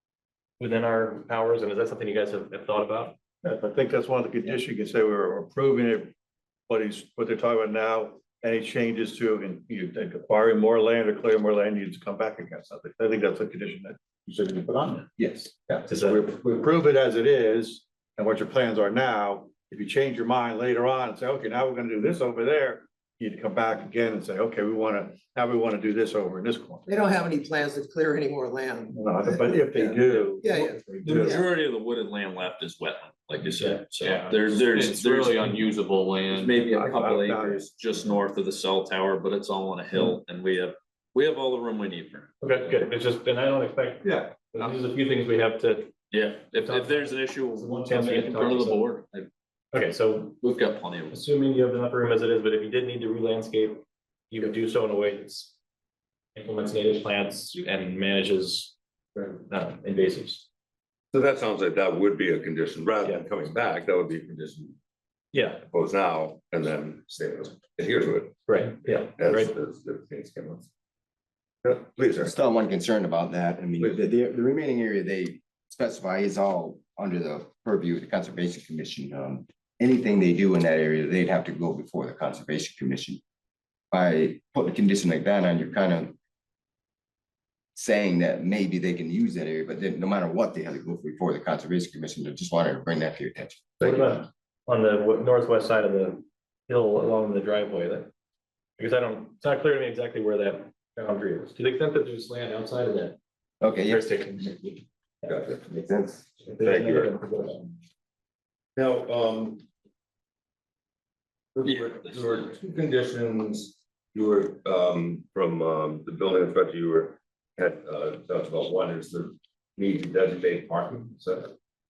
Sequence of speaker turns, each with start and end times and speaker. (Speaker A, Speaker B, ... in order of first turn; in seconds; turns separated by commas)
Speaker A: 0.6-3.2, Speaker B: 3.4-6.1, Speaker B: 6.7-26.9, Speaker C: 15.2-15.4, Speaker A: 15.9-16.2, Speaker D: 26.9-31.4, Speaker B: 28.9-31.4, Speaker E: 31.0-35.5, Speaker F: 34.0-36.6, Speaker E: 36.3-42.7, Speaker B: 36.5-37.6, Speaker A: 42.4-45.9, Speaker E: 46.1-49.3, Speaker A: 46.6-48.9, Speaker A: 49.7-50.4, Speaker E: 50.4-51.2, Speaker A: 51.1-55.5, Speaker A: 56.4-60.5, Speaker G: 61.1-64.8, Speaker A: 65.3-65.6, Speaker G: 65.7-70.7, Speaker A: 68.5-69.5, Speaker G: 71.6-72.3, Speaker C: 72.2-83.2, Speaker C: 83.9-86.2, Speaker C: 87.8-93.9, Speaker A: 93.8-98.1, Speaker A: 98.8-103.2, Speaker C: 103.6-104.0, Speaker A: 103.9-104.8, Speaker G: 105.3-105.6, Speaker C: 105.5-106.3, Speaker A: 106.5-107.7, Speaker G: 106.6-107.1, Speaker G: 108.8-109.6, Speaker G: 111.5-121.5, Speaker E: 111.6-112.5